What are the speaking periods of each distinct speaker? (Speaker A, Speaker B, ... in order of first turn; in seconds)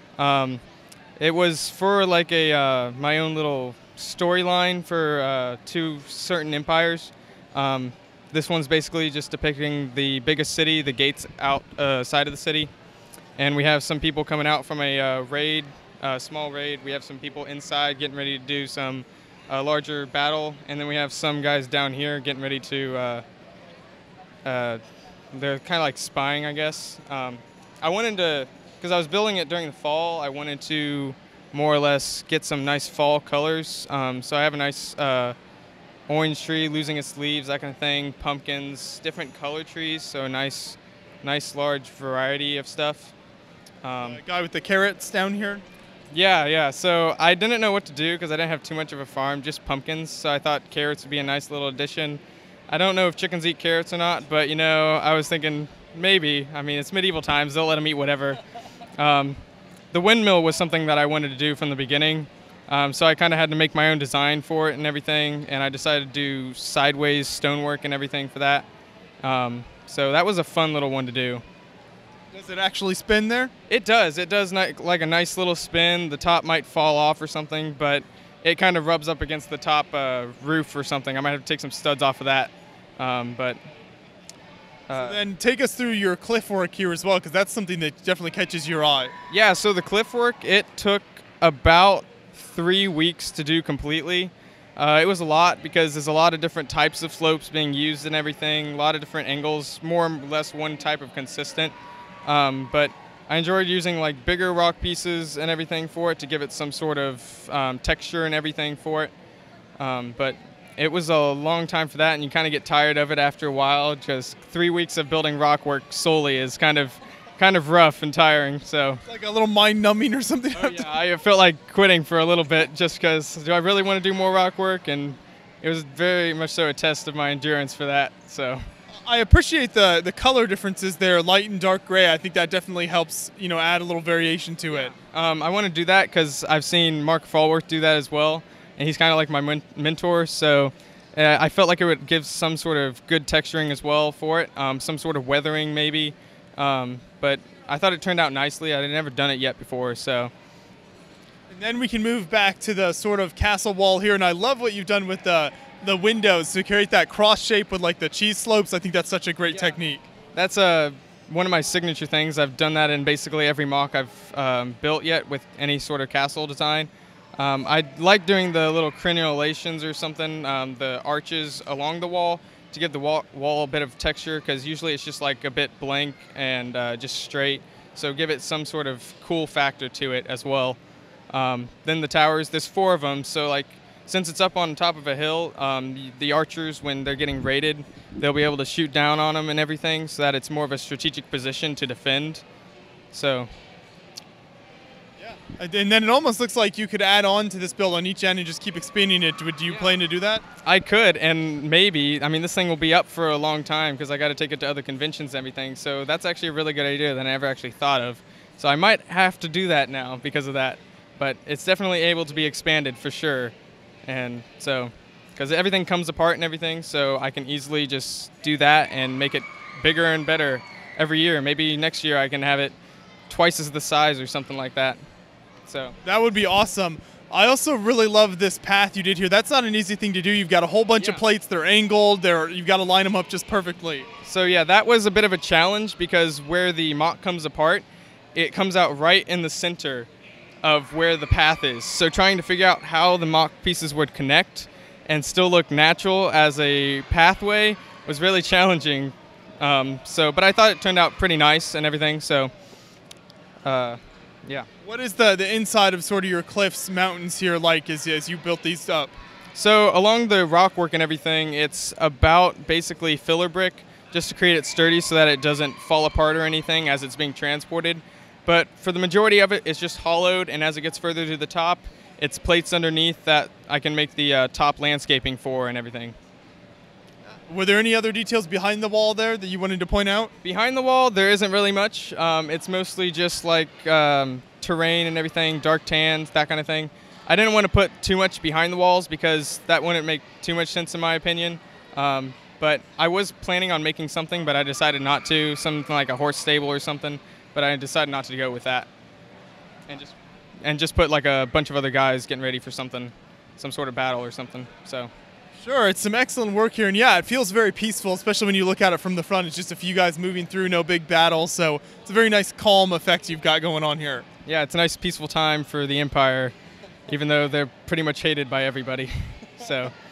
Speaker A: 0.2-0.6, 1.2-12.7, 13.4-23.2, 24.4-24.8, 25.3-35.4, 36.1-43.1, 43.8-44.2, 46.1-58.4, 59.0-59.4, 59.9-68.7, 69.2-71.4, 73.7-83.6, 84.9-85.2, 89.3-109.1, 109.8-119.0, 120.5-128.6, 134.7-150.3, 160.3-180.8, 181.3-192.4, 193.1-193.5, 199.7-200.0, 200.6-213.5, 214.1-222.7, 223.3-225.0, 225.7-225.9, 231.0-231.2, 234.2-240.1, 240.6-252.5, 253.6-254.7, 259.5-276.1, 280.4-298.9, 299.9-305.1, 314.4-316.5, 317.1-319.9
Speaker B: 44.0-45.6, 72.3-73.5, 85.0-89.1, 119.0-120.9, 129.0-134.9, 151.5-160.1, 195.2-200.4, 226.0-234.1, 254.8-259.1, 277.5-280.3, 305.6-314.2